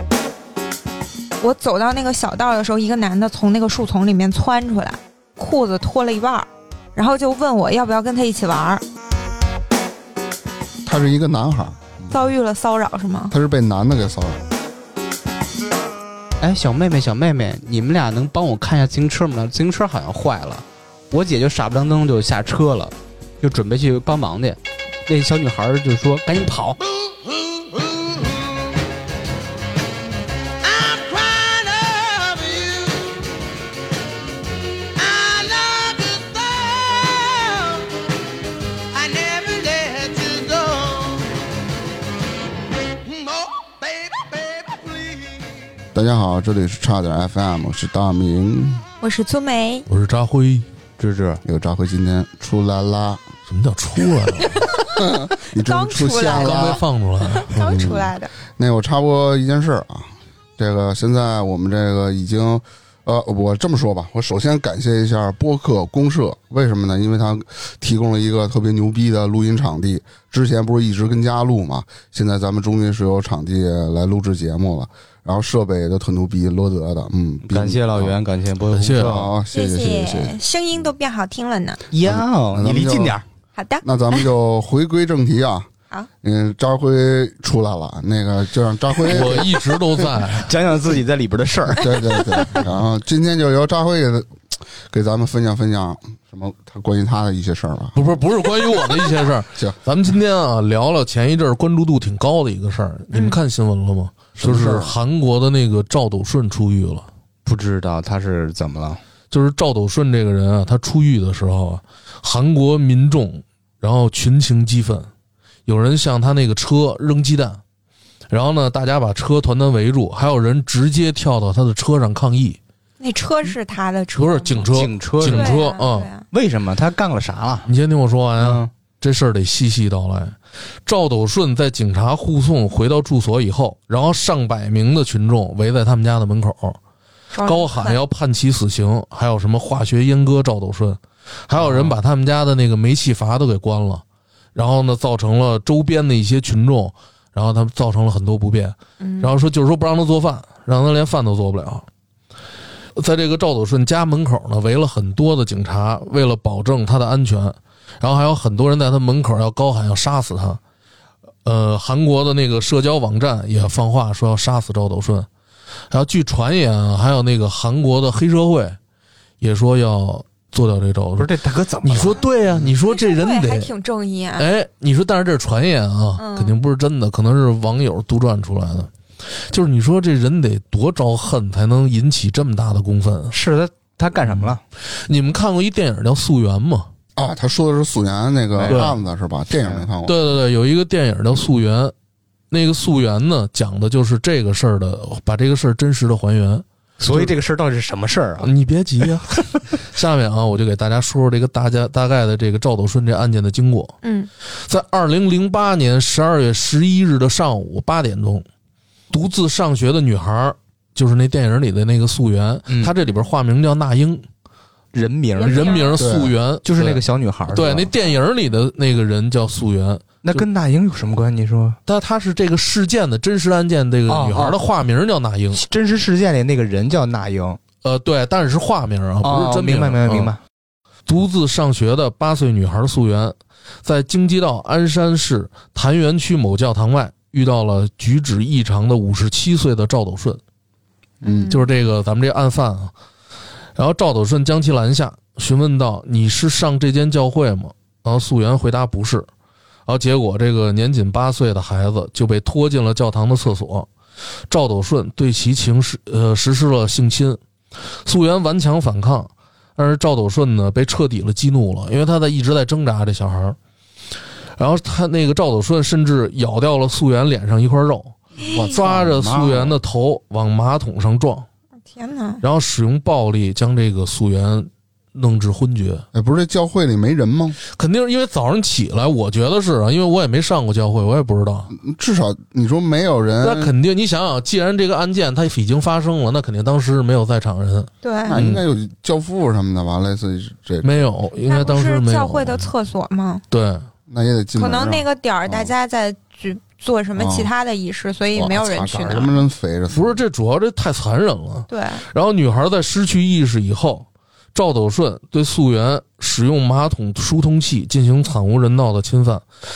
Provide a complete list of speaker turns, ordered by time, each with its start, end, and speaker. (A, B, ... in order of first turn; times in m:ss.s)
0:01.4-0:08.8 A
0:10.8-0:12.2 B
0:12.1-0:13.3 A
0:13.3-0:14.4 B
0:16.4-0:26.8 C
0:27.1-0:28.5 D
0:30.6-0:33.2 D
0:35.0-0:37.9 D
0:38.9-0:41.3 D
0:43.0-0:45.4 D
0:45.9-0:48.8 B
0:49.0-0:49.8 A
0:49.9-0:50.6 E
0:51.0-0:51.4 C
0:51.4-0:53.2 B
0:53.5-0:54.6 E
0:54.9-0:56.8 B
0:55.5-0:58.3 A
0:56.4-0:57.8 E
0:57.6-1:18.2 B
1:17.5-1:19.3 C
1:18.7-1:19.3 E
1:19.0-1:20.4 B
1:19.5-1:21.8 A
1:21.9-1:23.2 C
1:22.0-1:23.2 B
1:23.6-1:24.2 A
1:23.8-1:25.7 B
1:26.2-1:30.0 B
1:29.0-1:30.5 E
1:30.4-1:32.2 C
1:31.7-1:38.0 B
1:37.9-1:47.1 E
1:43.1-1:43.4 A
1:44.4-1:45.0 B
1:47.4-1:49.0 C
1:49.3-1:55.1 E
1:55.6-1:57.6 E
1:58.3-2:02.6 E
2:03.0-2:06.3 A
2:04.2-2:06.1 E
2:04.7-2:05.6 C
2:06.3-2:07.7 C
2:07.6-2:16.8 E
2:08.4-2:08.7 C
2:17.3-2:18.0 A
2:17.4-2:24.0 E
2:24.5-2:31.8 E
2:29.0-2:29.3 A
2:33.0-2:40.6 E
2:41.4-2:45.3 E
2:45.9-2:48.8 E
2:49.4-2:51.3 E
2:51.2-2:52.2 C
2:51.8-2:53.7 E
2:52.8-2:54.5 A
2:54.4-2:58.9 E
2:56.2-2:56.6 A
2:59.5-3:03.3 E
3:03.3-3:04.6 C
3:05.0-3:06.9 E
3:07.2-3:10.2 B
3:08.6-3:09.0 C
3:08.7-3:08.9 E
3:09.6-3:09.9 C
3:10.0-3:11.9 E
3:12.5-3:17.3 E
3:17.0-3:18.5 C
3:18.4-3:23.9 E
3:24.0-3:24.3 A
3:24.6-3:28.4 E
3:29.1-3:34.2 E
3:32.7-3:32.9 C
3:34.9-3:36.0 C
3:35.4-3:36.0 A
3:35.4-3:40.4 E
3:36.0-3:36.3 B
3:36.6-3:37.9 C
3:40.2-3:41.8 C
3:41.9-3:45.6 E
3:44.1-3:44.6 C
3:45.5-3:47.6 C
3:47.8-3:50.3 E
3:49.2-3:50.4 C
3:51.0-4:00.4 E
4:01.2-4:01.5 B
4:01.2-4:01.6 A
4:01.5-4:02.9 E
4:03.8-4:09.3 E
4:09.9-4:13.9 E
4:14.5-4:17.4 E
4:18.0-4:23.6 E
4:24.6-4:31.4 E
4:28.4-4:29.8 B
4:31.9-4:32.4 A
4:32.4-4:36.0 E
4:36.1-4:37.6 B
4:37.7-4:41.7 E
4:41.7-4:43.7 B
4:43.4-4:48.6 E
4:48.0-4:48.4 A
4:48.2-4:51.0 B
4:50.8-4:52.7 E
4:51.5-4:53.4 A
4:53.5-4:53.9 E
4:54.1-4:55.7 B
4:54.6-4:59.4 A
4:57.2-4:57.5 B
4:58.3-5:00.1 B
4:59.9-5:09.4 E
5:01.7-5:02.0 A